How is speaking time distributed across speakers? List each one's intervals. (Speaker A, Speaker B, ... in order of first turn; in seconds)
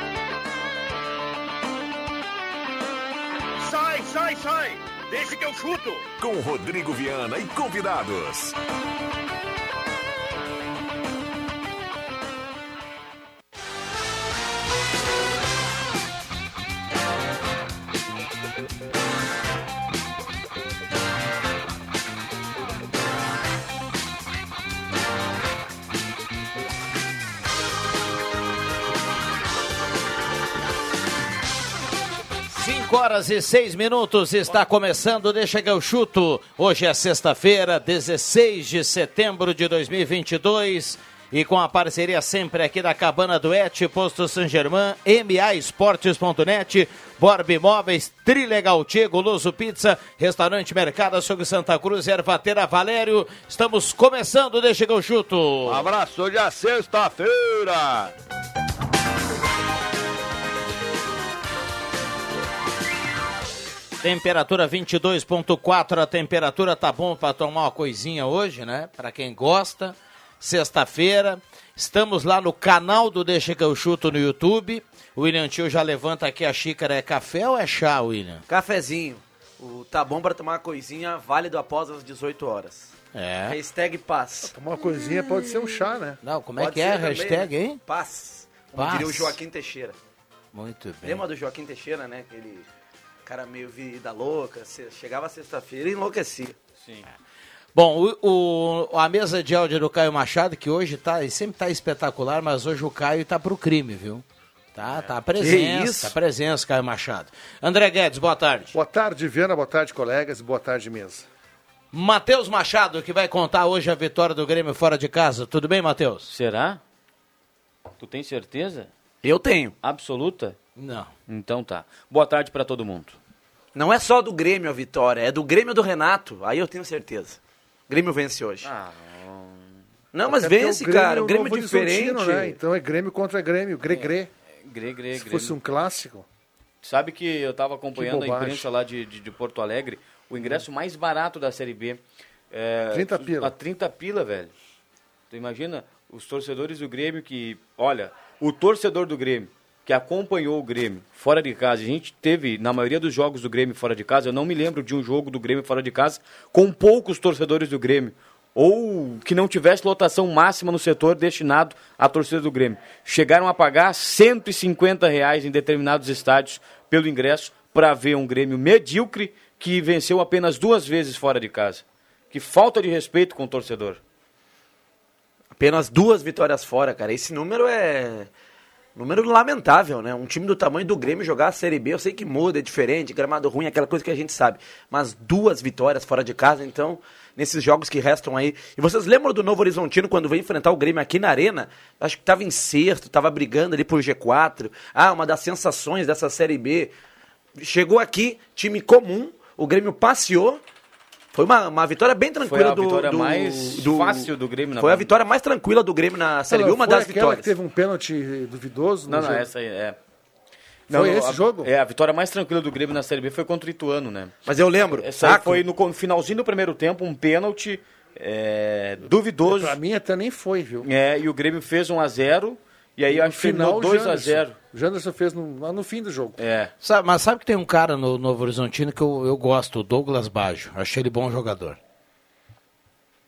Speaker A: 3.6-6.1
Speaker B: 6.2-8.6
Speaker C: 32.5-55.9, 64.0-78.4, 83.1-83.6, 86.2-87.8, 88.8-89.4, 90.5-91.2, 97.8-108.8, 111.9-116.3, 120.8-121.1, 226.8-231.8
Speaker D: 55.7-58.1
Speaker E: 78.5-82.9, 83.5-84.5, 86.6-90.0, 91.0-92.7, 93.2-96.6, 105.4-106.1, 119.2-119.8, 123.8-127.4, 127.9-128.7, 130.1-132.6, 175.6-178.3, 178.9-196.9, 197.6-200.6, 201.3-207.5, 214.5-215.6
Speaker F: 84.5-86.2, 108.7-111.2, 130.3-134.3, 135.2-136.3, 137.9-138.7, 142.9-143.5, 206.5-209.5, 210.9-211.7, 219.4-220.9, 223.1-226.4
Speaker G: 116.3-116.8, 118.0-118.9, 119.8-120.6, 121.3-123.2, 128.6-129.8, 134.6-135.6, 136.8-144.5, 145.3-174.0, 202.4-205.1, 209.1-210.0, 210.9-214.3, 214.9-219.8, 220.8-224.6, 226.4-226.7